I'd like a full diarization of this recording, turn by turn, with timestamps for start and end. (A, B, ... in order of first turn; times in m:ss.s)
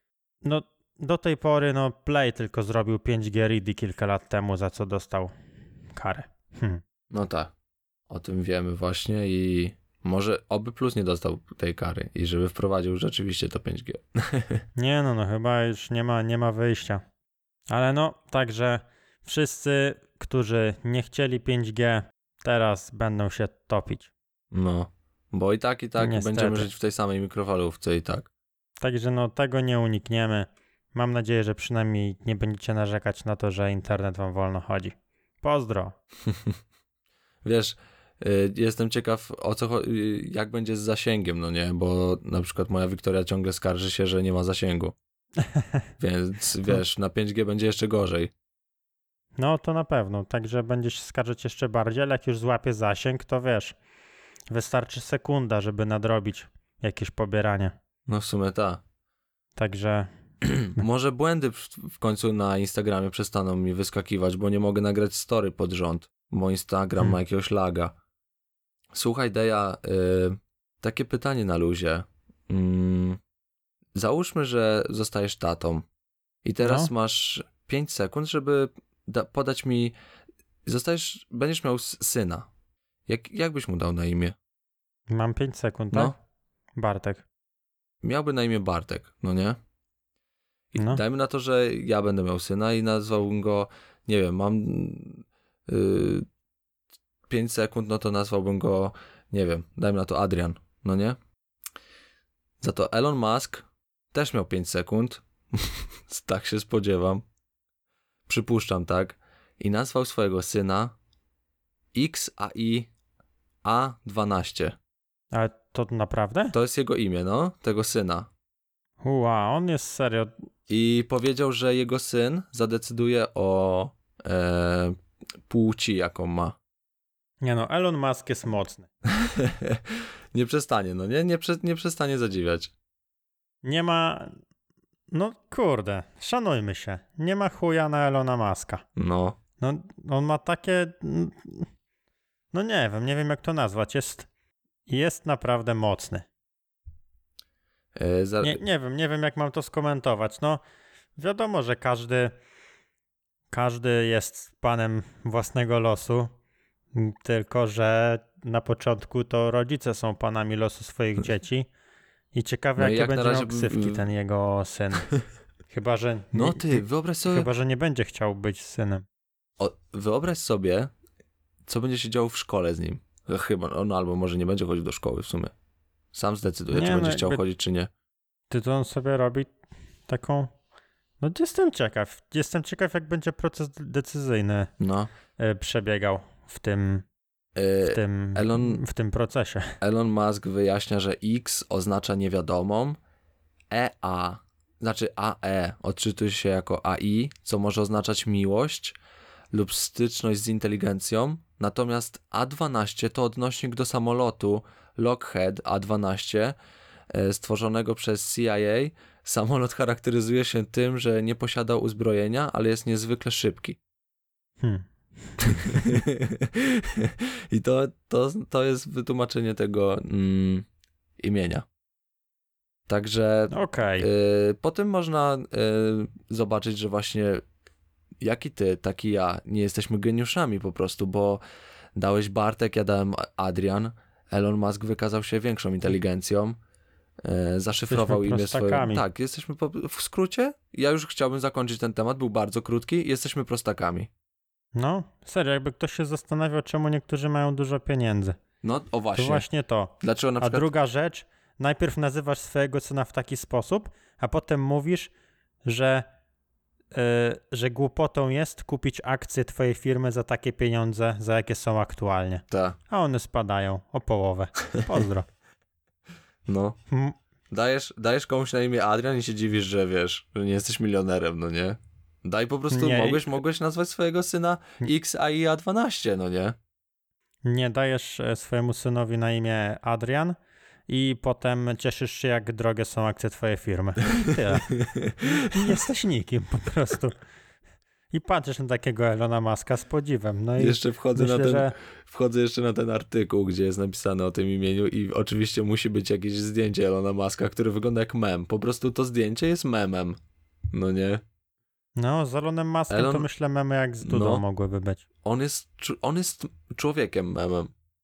0:00.4-0:05.3 A
0:05.9-0:06.8 A
0:07.1-0:07.5 B
0:08.1-0:14.6 B
0:14.8-0:17.0 A
0:17.7-0:24.1 A
0:24.5-0:28.3 B
0:26.0-0:26.7 A
0:28.8-0:36.0 A
0:36.3-0:36.6 B
0:37.4-0:45.0 B
0:45.5-0:45.8 A
0:46.0-0:48.3 B
0:49.4-0:53.8 A
0:54.5-0:57.8 A
0:58.1-0:58.8 B
0:59.6-1:00.1 A
1:00.5-1:07.9 B
1:08.9-1:13.2 B
1:14.0-1:15.9 B
1:16.4-1:20.0 B
1:16.6-1:16.9 A
1:20.6-1:22.5 B
1:23.1-1:24.4 B
1:25.1-1:26.2 A
1:26.8-1:27.2 A
1:28.0-1:29.6 B
1:30.7-1:36.3 B
1:30.8-1:31.0 A
1:37.3-1:41.2 B
1:42.6-1:47.2 B
1:48.3-1:51.0 B
1:51.9-1:52.9 B
1:53.6-1:54.8 B
1:55.3-1:56.5 A
1:56.5-1:58.3 B
1:59.0-2:00.3 A
2:00.7-2:06.6 B
2:07.4-2:08.9 A
2:09.2-2:12.7 B
2:13.6-2:14.4 A
2:15.1-2:18.8 A
2:19.0-2:19.4 B
2:19.6-2:21.7 A
2:22.5-2:24.3 A
2:24.9-2:26.3 A
2:28.0-2:28.6 B
2:28.4-2:30.6 A
2:31.2-2:32.3 A
2:33.5-2:36.3 A
2:36.9-2:41.7 A
2:42.3-2:45.1 A
2:42.8-2:44.0 B
2:45.7-2:49.0 A
2:46.3-2:47.5 B
2:49.6-2:50.9 B
2:51.7-2:55.5 B
2:56.1-2:57.9 B
2:56.7-2:57.4 A
2:58.5-2:59.5 A
3:00.1-3:00.5 A
3:01.2-3:04.7 A
3:04.8-3:05.1 B
3:05.4-3:07.1 A
3:07.6-3:08.8 B
3:07.8-3:09.8 A
3:09.8-3:13.0 B
3:13.7-3:19.0 B
3:19.5-3:26.5 B
3:27.1-3:33.8 B
3:34.6-3:36.0 A
3:35.5-3:40.7 B
3:41.2-3:41.6 B
3:42.9-3:47.4 B
3:43.5-3:44.1 A
3:48.2-3:51.4 B
3:52.0-3:56.6 B
3:57.2-4:04.1 B
3:57.9-3:59.0 A
4:04.8-4:08.4 A
4:08.6-4:09.4 B
4:09.2-4:15.1 A
4:10.0-4:10.7 B
4:15.6-4:16.0 A
4:16.9-4:25.3 A
4:22.5-4:22.8 B
4:26.5-4:26.8 B
4:26.9-4:27.2 A
4:27.5-4:36.6 B
4:32.7-4:33.2 A
4:37.4-4:40.4 A
4:40.9-4:44.7 A
4:44.3-4:45.8 B
4:45.4-4:47.2 A
4:48.1-4:51.7 A
4:50.6-5:00.2 B
5:00.7-5:01.2 B
5:02.0-5:05.0 A
5:02.9-5:03.3 B
5:04.0-5:04.4 B
5:05.2-5:07.7 B